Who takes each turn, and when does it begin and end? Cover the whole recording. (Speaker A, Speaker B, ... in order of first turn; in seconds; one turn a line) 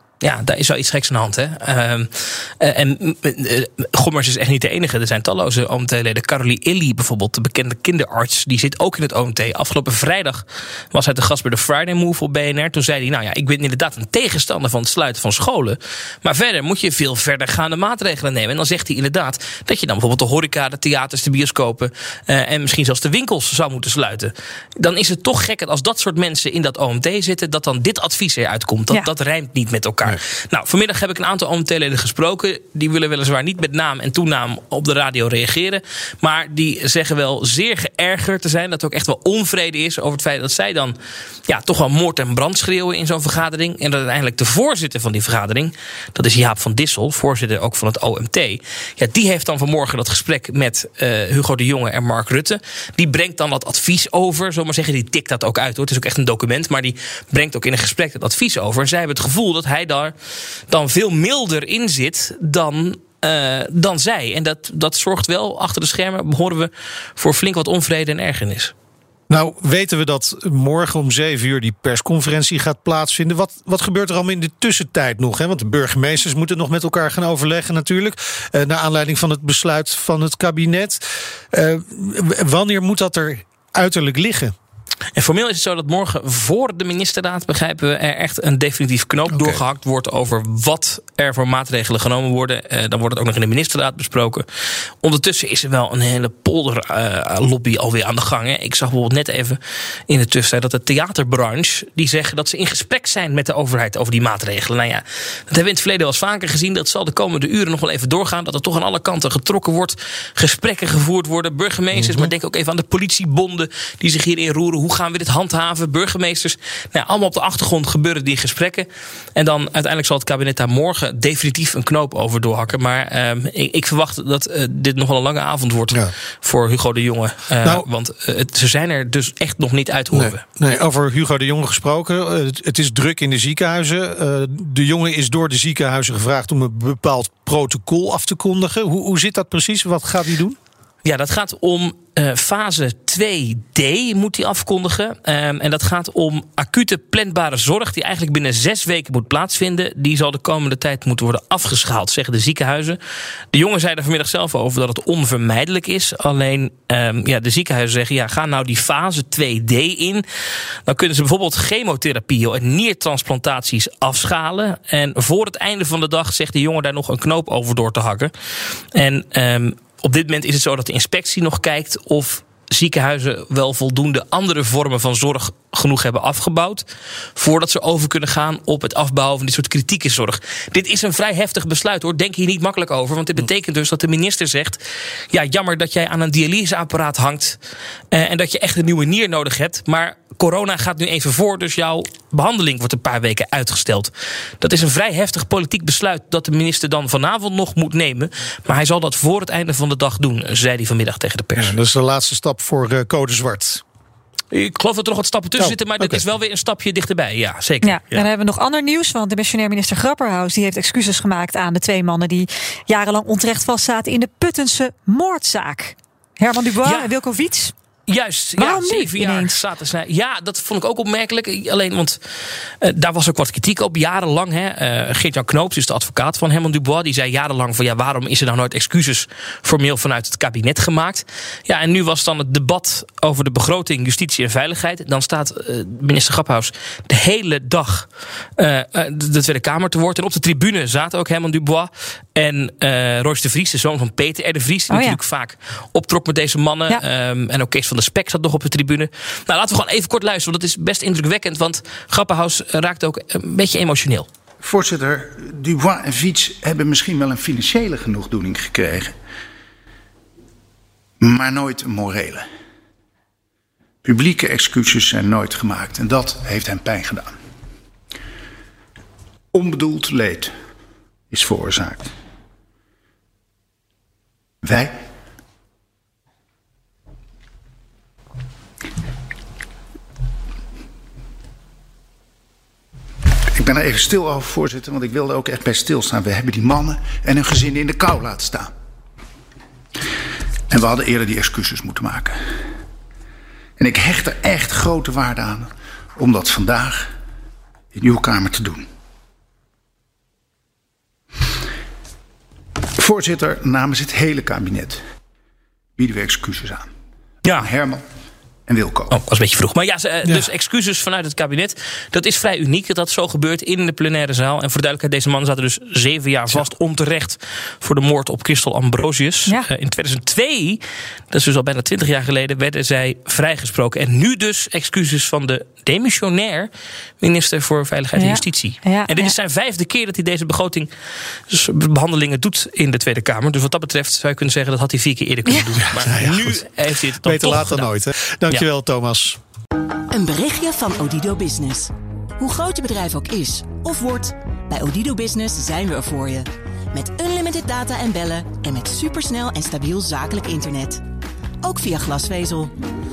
Speaker A: 0.2-60.1
Speaker A: 60.7-68.7
Speaker B: 69.3-84.5
Speaker A: 85.2-94.5
Speaker B: 89.3-89.6
Speaker A: 95.0-130.4
Speaker B: 111.9-112.3
Speaker B: 130.1-140.6
Speaker A: 141.0-153.0
Speaker A: 153.5-160.3
Speaker A: 160.8-168.3
Speaker A: 168.9-187.6
Speaker A: 188.1-201.8
Speaker B: 201.6-203.8
Speaker A: 204.5-208.3
Speaker B: 205.6-206.2
Speaker C: 207.8-217.7
Speaker A: 216.8-217.1
Speaker A: 218.1-222.2
Speaker C: 218.6-219.6
Speaker A: 222.8-254.3
Speaker C: 244.9-245.2
Speaker D: 254.6-259.1
Speaker D: 261.2-262.4
Speaker D: 264.0-267.3
Speaker D: 269.5-270.5
Speaker D: 271.3-272.1
Speaker D: 274.6-274.9
Speaker D: 283.5-288.7
Speaker D: 290.7-292.4
Speaker D: 293.8-297.1
Speaker D: 297.9-298.8
Speaker D: 302.9-305.0
Speaker D: 306.0-306.9
Speaker A: 307.4-307.7
Speaker D: 307.6-308.1
Speaker D: 308.7-309.2
Speaker A: 309.1-326.7
Speaker A: 327.2-330.9
Speaker C: 328.1-329.4
Speaker A: 331.5-337.9
Speaker B: 335.9-336.6
Speaker B: 337.2-339.4
Speaker E: 340.1-351.0
Speaker E: 351.6-352.7